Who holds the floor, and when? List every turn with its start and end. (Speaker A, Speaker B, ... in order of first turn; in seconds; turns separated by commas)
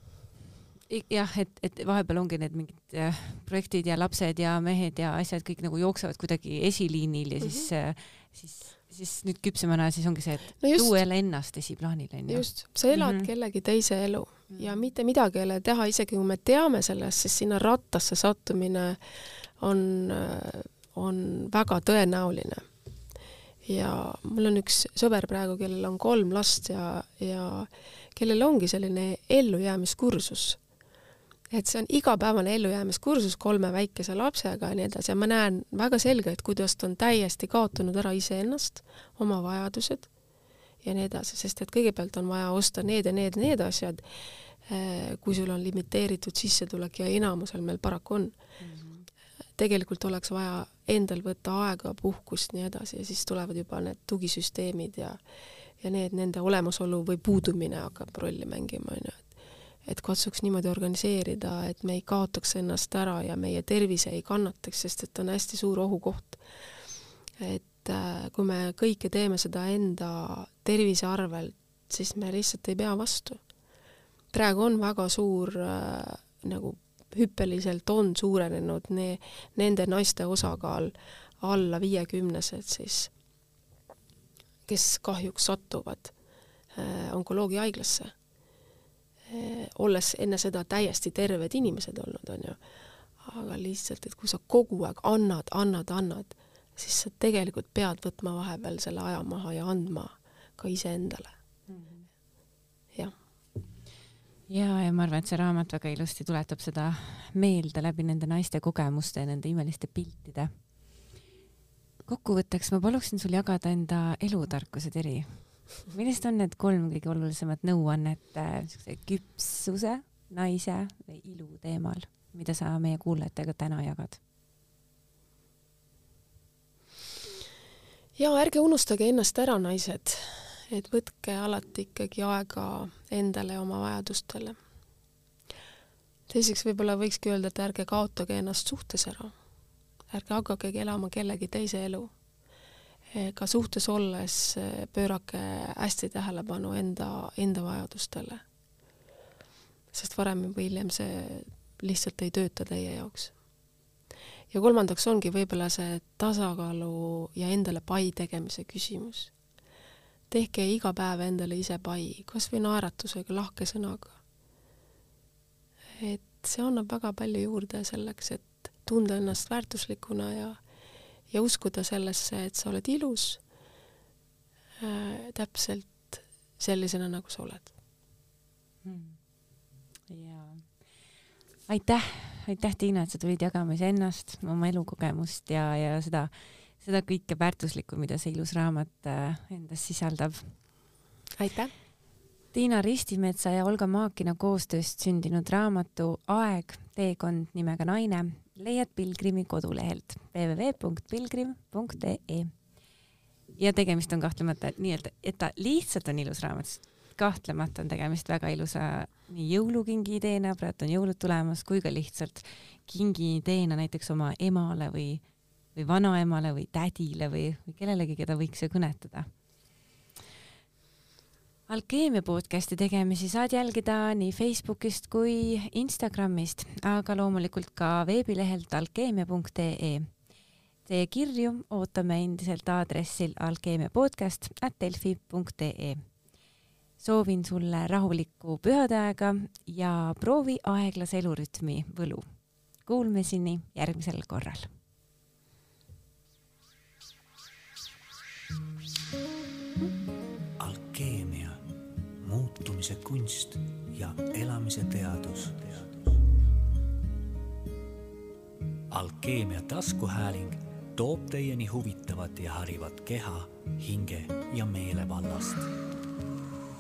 Speaker A: 0.9-13.3, Speaker B: 7.4-7.7, Speaker B: 10.6-11.0, Speaker B: 12.3-19.0, Speaker A: 14.5-14.8, Speaker B: 19.6-22.6, Speaker B: 23.6-30.6, Speaker B: 31.5-40.1, Speaker B: 40.8-44.0, Speaker B: 44.6-48.4, Speaker A: 48.6-49.1, Speaker B: 49.6-55.2, Speaker B: 55.8-59.3, Speaker B: 59.9-66.4, Speaker B: 67.4-73.4, Speaker B: 74.3-83.1, Speaker B: 84.7-86.1, Speaker B: 86.7-88.1, Speaker B: 89.3-92.6, Speaker B: 93.2-101.3, Speaker A: 101.7-102.1, Speaker A: 104.5-110.5, Speaker A: 112.1-124.2, Speaker B: 128.2-134.6, Speaker B: 136.3-139.3, Speaker B: 140.1-142.1, Speaker B: 143.1-148.4, Speaker B: 149.9-153.3, Speaker B: 154.5-159.3, Speaker B: 160.3-164.2, Speaker B: 166.0-170.6, Speaker B: 171.3-173.4, Speaker B: 174.8-177.7, Speaker A: 178.8-179.2, Speaker A: 180.1-180.7, Speaker A: 181.7-190.6, Speaker B: 191.4-191.7, Speaker A: 192.5-202.5, Speaker A: 203.6-215.2, Speaker A: 215.8-219.3, Speaker A: 221.7-230.1, Speaker A: 230.9-236.0, Speaker A: 237.0-242.3, Speaker A: 242.9-244.7, Speaker C: 250.6-251.6, Speaker C: 252.2-256.2, Speaker C: 258.9-265.7